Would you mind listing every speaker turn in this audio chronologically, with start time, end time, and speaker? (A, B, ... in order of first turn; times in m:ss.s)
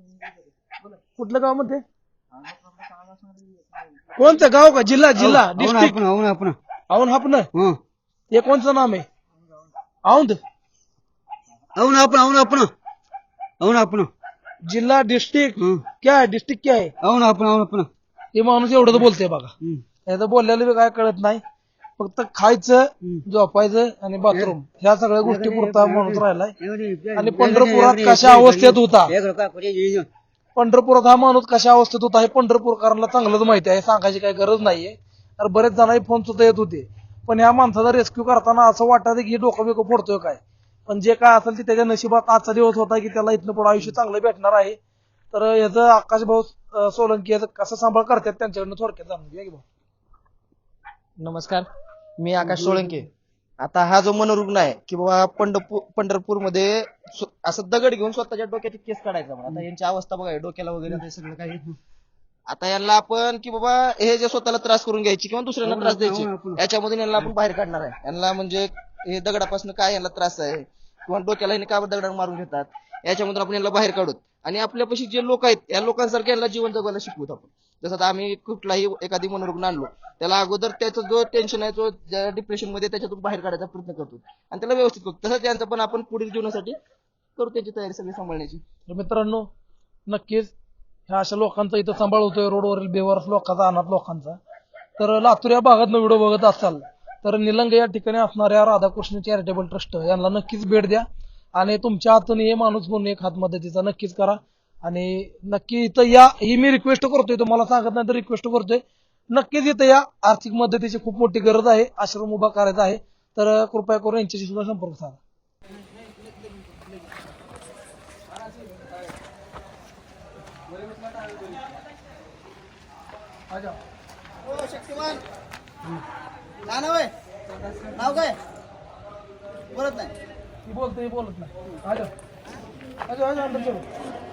0:01.2-0:01.8 A
0:04.2-0:06.0 A
0:05.2-0:06.6 B
0:06.9-0:07.5 A
0:07.5-0:07.8 B
0:08.3-0:09.0 A
0:10.0-0:10.4 A
0:11.8-0:12.7 B
0:13.6-0:14.1 B
0:14.6-0:16.9 A
0:15.6-0:15.8 B
0:17.0-0:17.9 B
0:18.3-0:19.5 A
0:20.0-0:21.4 A
0:22.0-0:26.5 A
0:25.2-0:30.1 B
0:27.1-0:29.1 A
0:30.6-0:44.8 A
0:45.3-0:49.6 A
0:51.2-0:51.7 C
0:52.2-0:53.1 C
0:53.6-1:01.7 C
1:02.5-1:26.8 C
1:05.6-1:06.6 B
1:27.4-1:28.6 C
1:28.9-1:29.4 A
1:30.1-1:30.5 A
1:31.1-1:34.4 A
1:35.0-1:55.2 A
2:03.5-2:03.8 A
2:04.4-2:05.2 C
2:06.6-2:07.1 C
2:07.9-2:08.4 C
2:09.7-2:10.1 C
2:10.6-2:12.1 A
2:13.1-2:13.8 A